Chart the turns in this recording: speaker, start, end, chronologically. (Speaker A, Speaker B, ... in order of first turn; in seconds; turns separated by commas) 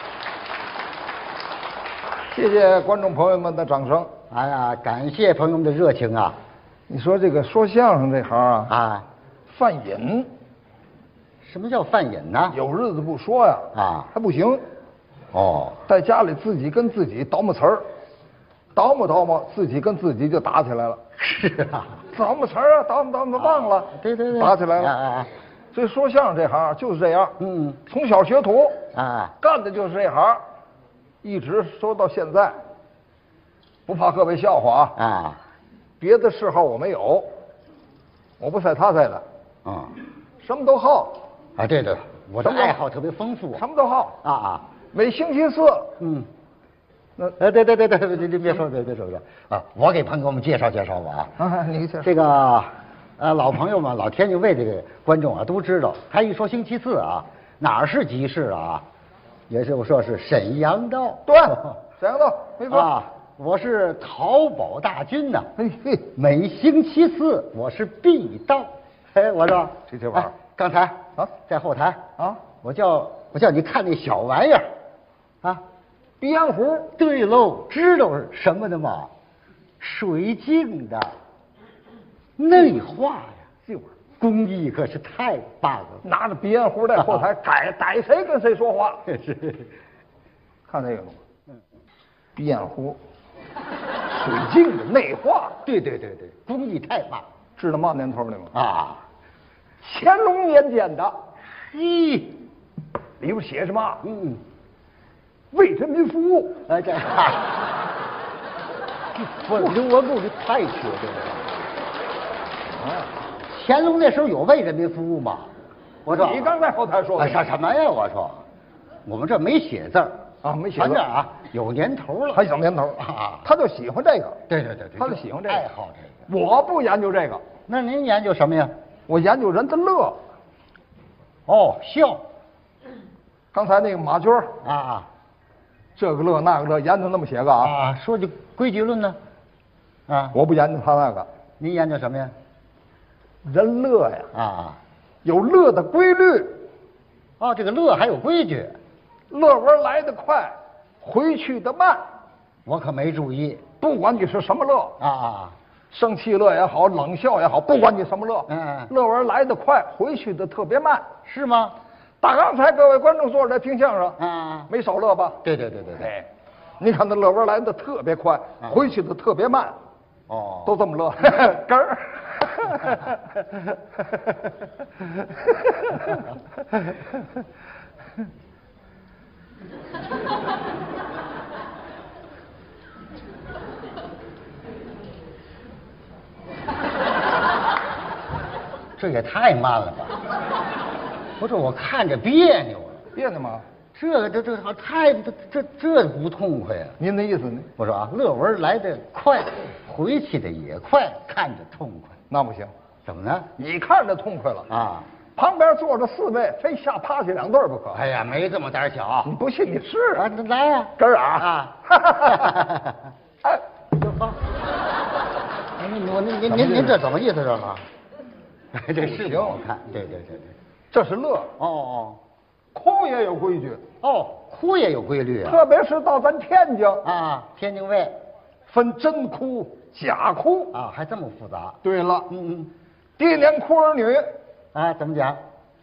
Speaker A: 2.3-4.1, Speaker B: 4.3-6.4, Speaker A: 6.9-8.7, Speaker B: 8.7-9.1, Speaker A: 9.5-10.3, Speaker B: 11.4-12.6, Speaker A: 12.5-14.6, Speaker B: 13.7-14.1, Speaker B: 15.3-15.8, Speaker A: 15.9-17.8, Speaker A: 18.7-21.0, Speaker B: 21.2-22.0, Speaker A: 22.1-24.9, Speaker B: 23.4-25.3, Speaker A: 25.7-27.4, Speaker B: 27.4-27.8, Speaker A: 27.9-28.8, Speaker B: 28.9-29.3, Speaker A: 29.4-30.4, Speaker A: 31.2-32.6, Speaker A: 33.9-35.0, Speaker B: 35.0-35.4, Speaker A: 36.0-37.3, Speaker A: 38.4-39.2, Speaker B: 39.6-40.0, Speaker A: 40.4-41.2, Speaker B: 41.6-43.6, Speaker A: 42.4-42.8, Speaker A: 43.5-44.2, Speaker B: 44.2-44.6, Speaker A: 44.9-45.9, Speaker B: 46.0-46.3, Speaker B: 47.4-51.4, Speaker A: 51.4-52.1, Speaker B: 52.0-58.8, Speaker B: 59.5-61.8, Speaker A: 61.3-62.9, Speaker B: 62.7-65.5, Speaker A: 65.6-66.1, Speaker B: 66.1-72.0, Speaker A: 69.9-70.3, Speaker B: 72.6-74.7, Speaker A: 76.2-76.9, Speaker B: 77.0-79.1, Speaker B: 79.8-81.1, Speaker B: 82.4-83.5, Speaker B: 84.2-86.0, Speaker A: 86.0-89.0, Speaker B: 89.1-89.7, Speaker A: 90.7-91.2, Speaker A: 92.3-93.0, Speaker A: 94.1-95.6, Speaker B: 95.6-97.2, Speaker A: 97.6-98.5, Speaker B: 98.5-99.0, Speaker A: 99.8-101.2, Speaker B: 101.5-102.4, Speaker A: 103.2-104.0, Speaker B: 104.0-104.4, Speaker A: 105.5-106.6, Speaker B: 106.7-107.5, Speaker B: 109.2-111.5, Speaker B: 113.5-115.5, Speaker B: 116.0-116.5, Speaker A: 116.1-117.5, Speaker B: 117.2-118.4, Speaker B: 119.0-120.2, Speaker A: 120.4-121.0, Speaker B: 120.8-122.5, Speaker A: 122.3-124.4, Speaker B: 123.0-123.4, Speaker B: 124.5-126.2, Speaker A: 125.0-125.7, Speaker A: 126.3-127.4, Speaker B: 127.7-128.7, Speaker A: 129.1-130.2, Speaker B: 131.5-132.2, Speaker A: 133.5-134.5, Speaker B: 134.6-135.1, Speaker A: 136.0-137.7, Speaker B: 137.6-139.2, Speaker B: 140.1-140.4, Speaker A: 140.3-141.3, Speaker B: 141.6-142.3, Speaker A: 143.5-144.3, Speaker B: 144.3-144.8, Speaker A: 145.2-146.6, Speaker B: 147.4-148.8, Speaker A: 149.3-152.0, Speaker B: 152.6-153.6, Speaker A: 153.8-154.9, Speaker B: 155.0-155.6, Speaker A: 155.9-161.1, Speaker B: 158.5-158.9, Speaker B: 161.2-161.8, Speaker A: 162.2-165.4, Speaker B: 164.2-164.7, Speaker B: 165.4-166.1, Speaker A: 166.0-166.3, Speaker A: 166.8-169.8, Speaker B: 170.3-170.8, Speaker A: 170.6-173.2, Speaker B: 188.9-190.2, Speaker B: 191.4-193.0, Speaker A: 193.1-193.6, Speaker B: 193.9-197.0, Speaker A: 197.0-197.7, Speaker B: 197.8-202.2, Speaker A: 202.3-202.7, Speaker B: 203.0-203.5, Speaker A: 203.6-204.7, Speaker B: 204.7-205.1, Speaker A: 205.3-208.0, Speaker B: 207.9-209.3, Speaker A: 209.2-210.2, Speaker B: 210.1-213.1, Speaker A: 211.0-212.6, Speaker B: 213.9-214.3, Speaker B: 215.8-217.8, Speaker A: 216.5-217.0, Speaker B: 218.7-220.6, Speaker A: 219.0-219.6, Speaker A: 220.9-221.5, Speaker B: 221.6-222.2, Speaker A: 222.7-223.8, Speaker B: 224.0-225.6, Speaker A: 225.4-227.0, Speaker B: 227.0-228.2, Speaker A: 228.7-230.8, Speaker B: 230.7-232.7, Speaker A: 231.8-232.3, Speaker A: 233.2-234.3, Speaker B: 234.7-235.4